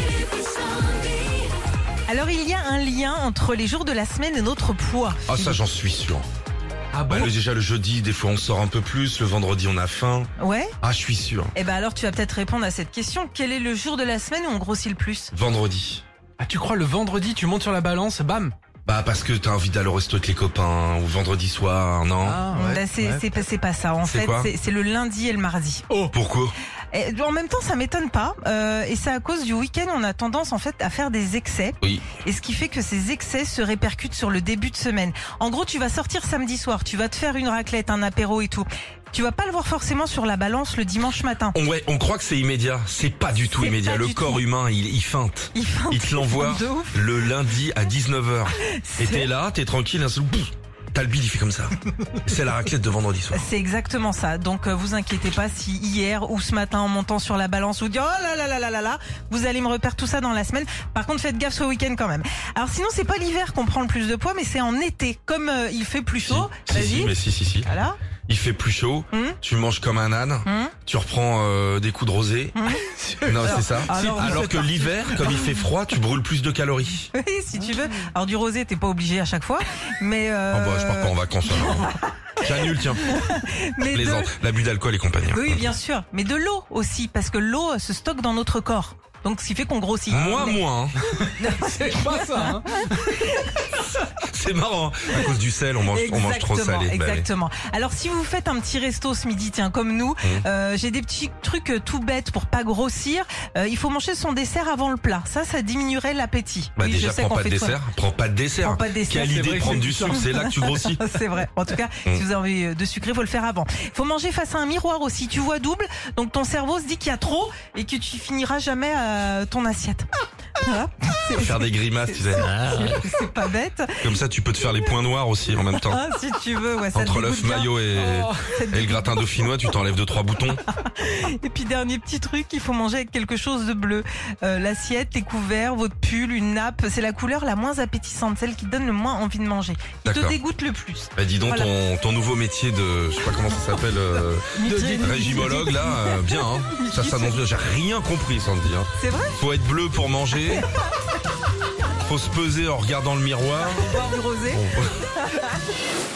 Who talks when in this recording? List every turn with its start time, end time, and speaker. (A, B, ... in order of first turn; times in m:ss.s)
0:02.1-0:05.6 A
0:05.3-0:06.3 B
0:06.9-0:07.3 C
0:07.1-0:10.3 B
0:10.4-0:10.7 A
0:10.8-0:11.5 B
0:11.6-0:15.3 A
0:15.3-0:16.0 B
0:16.4-0:18.5 C
0:18.9-0:22.4 B
0:22.2-0:23.4 C
0:22.5-0:25.8 A
0:24.0-0:24.5 B
0:26.1-0:26.5 B
0:26.9-0:41.6 A
0:41.5-0:53.5 B
0:43.5-0:44.4 A
0:45.6-0:47.1 A
0:48.6-0:49.3 A
0:53.3-1:08.0 A
1:06.2-1:07.7 B
1:08.3-1:12.6 B
1:09.1-1:09.4 A
1:10.4-1:10.7 A
1:12.6-1:12.8 A
1:12.9-1:14.7 C
1:13.3-1:17.1 B
1:13.4-1:14.8 A
1:17.1-1:24.3 A
1:20.5-1:25.7 B
1:25.3-1:30.6 A
1:30.1-1:31.0 B
1:31.1-1:33.2 C
1:31.4-1:33.7 A
1:34.2-1:37.3 B
1:35.9-1:47.8 A
1:46.8-1:51.0 B
1:48.6-2:04.2 A
1:49.2-1:50.3 C
2:01.3-2:03.0 B
2:04.0-2:06.0 B
2:05.8-2:09.5 A
2:06.9-2:10.6 B
2:08.0-2:08.5 C
2:10.7-2:21.7 A
2:20.0-2:20.4 B
2:21.2-2:30.7 B
2:23.5-2:27.4 A
2:24.6-2:25.6 C
2:29.0-2:29.4 A
2:30.4-2:30.7 A
2:32.0-2:34.0 B
2:33.6-2:35.6 A
2:34.5-2:34.9 B